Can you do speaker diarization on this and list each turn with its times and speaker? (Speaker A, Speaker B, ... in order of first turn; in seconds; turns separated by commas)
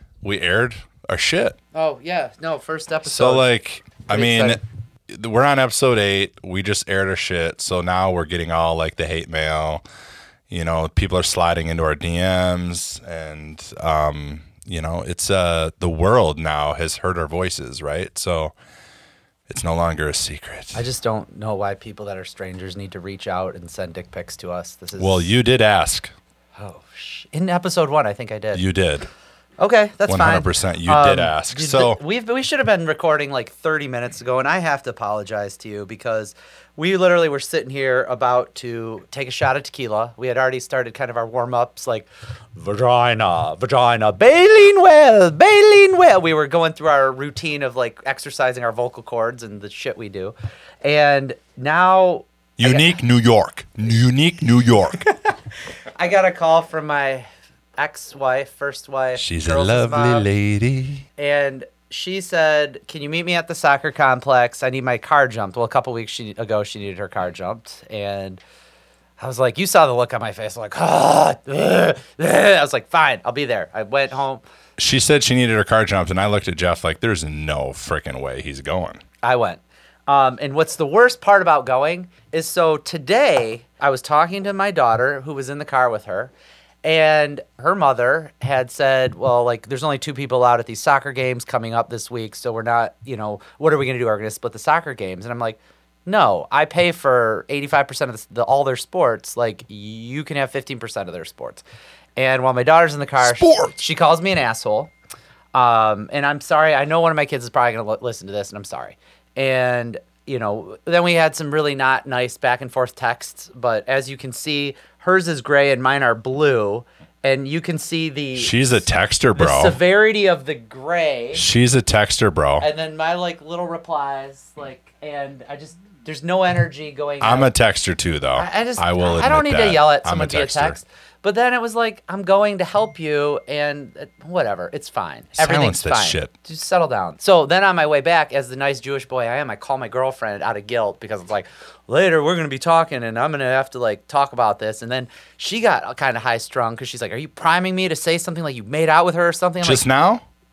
Speaker A: 0.2-1.6, Speaker B: 1.7-3.5, Speaker A: 3.1-9.8, Speaker B: 4.1-4.6, Speaker A: 10.5-18.5, Speaker A: 19.5-20.8, Speaker B: 20.8-25.3, Speaker A: 25.0-26.1, Speaker B: 26.6-28.6, Speaker A: 28.5-29.1, Speaker B: 29.6-52.9, Speaker A: 30.1-32.0, Speaker A: 52.6-55.0, Speaker B: 55.0-55.3, Speaker B: 55.9-60.3, Speaker A: 59.2-61.1, Speaker B: 61.2-68.4, Speaker B: 69.2-74.4, Speaker A: 74.8-79.0, Speaker B: 79.2-86.3, Speaker B: 86.8-101.6, Speaker B: 102.2-104.9, Speaker A: 103.2-103.7, Speaker B: 105.5-118.6, Speaker A: 118.4-119.8, Speaker B: 119.3-121.4, Speaker A: 121.3-122.7, Speaker B: 122.6-127.5, Speaker A: 127.2-130.8, Speaker B: 128.4-149.8, Speaker A: 135.4-136.3, Speaker A: 149.6-150.2